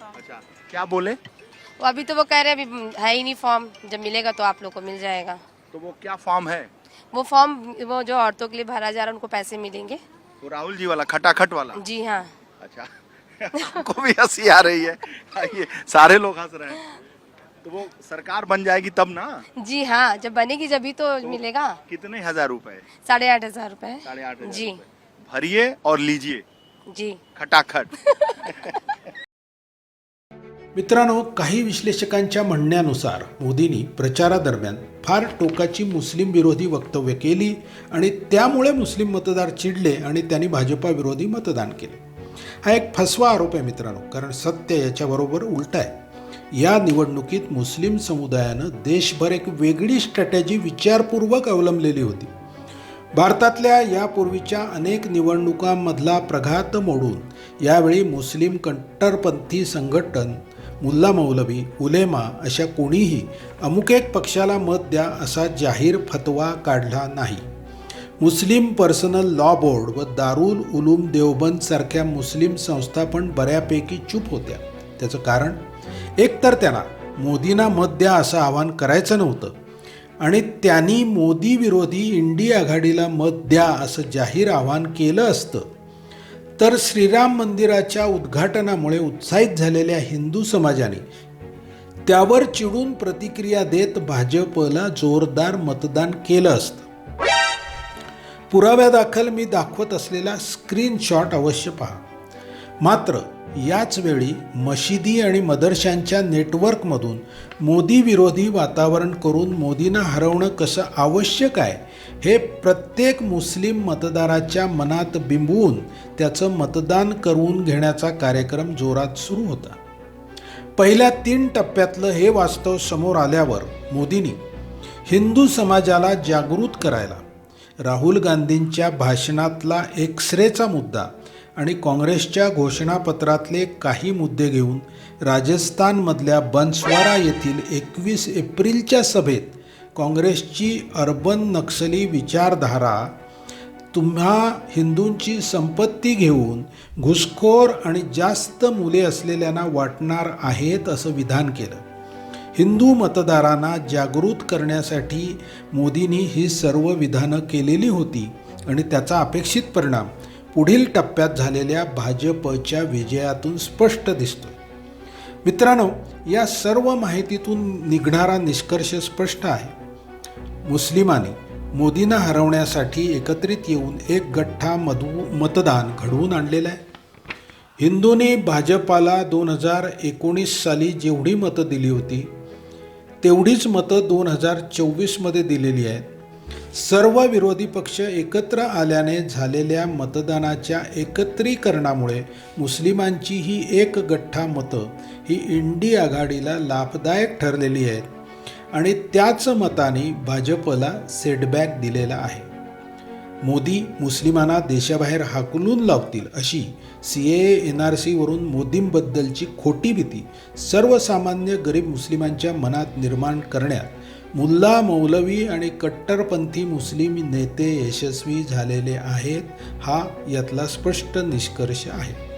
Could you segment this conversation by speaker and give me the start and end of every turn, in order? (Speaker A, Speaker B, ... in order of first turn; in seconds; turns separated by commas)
Speaker A: 0.1-1.2, Speaker B: 1.8-5.4, Speaker A: 5.7-6.7, Speaker B: 7.1-10.0, Speaker A: 10.4-11.8, Speaker B: 11.8-12.3, Speaker A: 12.6-16.8, Speaker A: 17.6-19.4, Speaker B: 19.5-21.8, Speaker A: 21.2-22.9, Speaker B: 22.9-24.8, Speaker A: 24.0-26.4, Speaker B: 26.9-27.2, Speaker A: 27.3-27.9, Speaker B: 28.0-28.4, Speaker C: 30.7-42.0, Speaker C: 42.6-46.0, Speaker C: 46.5-52.3, Speaker C: 53.2-67.4, Speaker C: 68.2-75.6, Speaker C: 76.2-79.5, Speaker C: 80.2-85.7, Speaker C: 86.6-91.0, Speaker C: 92.1-96.9, Speaker C: 98.5-102.0, Speaker C: 102.8-119.8, Speaker C: 120.8-124.4, Speaker C: 125.1-127.2, Speaker C: 127.8-143.1, Speaker C: 143.9-151.8, Speaker C: 152.6-164.6, Speaker C: 165.4-169.7, Speaker C: 170.7-176.8, Speaker C: 177.8-182.3, Speaker C: 183.2-186.1, Speaker C: 186.7-198.1, Speaker C: 198.7-202.5, Speaker C: 203.4-222.2